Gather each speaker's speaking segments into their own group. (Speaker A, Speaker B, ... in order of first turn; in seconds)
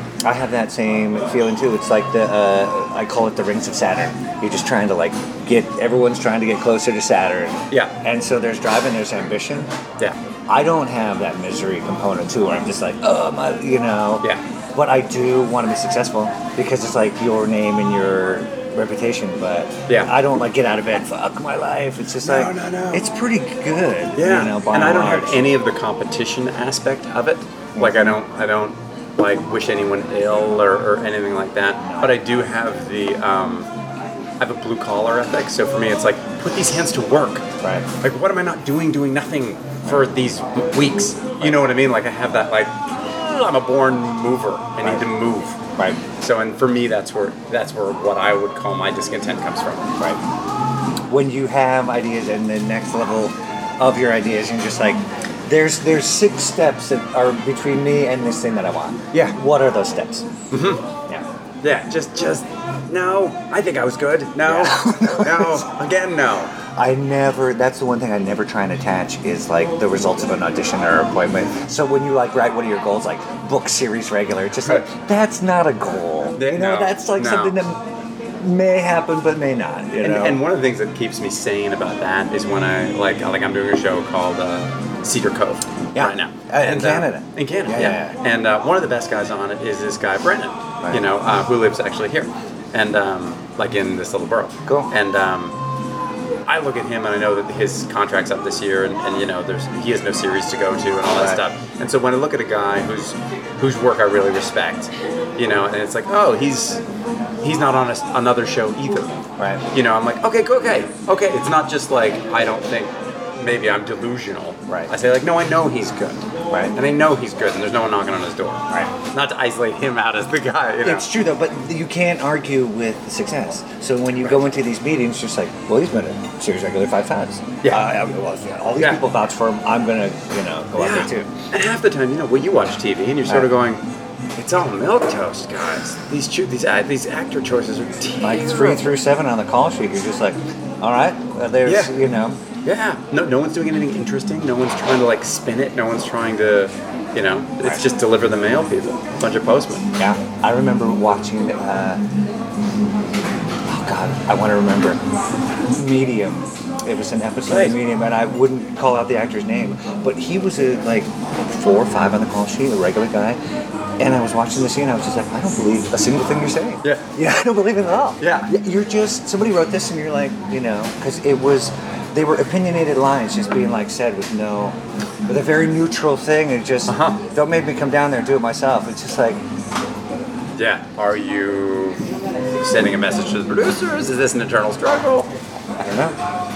Speaker A: 0.2-9.7, 10.5-25.5, 27.8-28.1, 31.8-32.2, 37.6-37.9, 51.1-60.3, 64.4-65.7, 66.7-77.8, 78.4-80.4, 85.9-88.1, 101.1-101.4, 109.4-109.6, 114.7-114.9, 116.5-116.7, 120.8-131.3, 138.2-142.4, 150.0-152.0, 153.7-155.0, 155.7-163.4, 164.0-179.4, 185.8-186.1
Speaker B: 19.9-20.1, 22.2-23.1, 24.1-33.7, 34.4-37.4, 38.0-45.6, 46.2-49.9, 60.5-60.8, 61.6-66.5, 76.4-77.6, 80.0-95.5, 96.5-106.8, 107.4-121.1, 127.6-127.9, 128.8-129.0, 130.8-133.8, 134.4-138.9, 141.6-142.0, 142.6-149.8, 157.5-157.8, 168.2-168.5, 176.9-177.2, 180.5-182.0, 182.6-185.3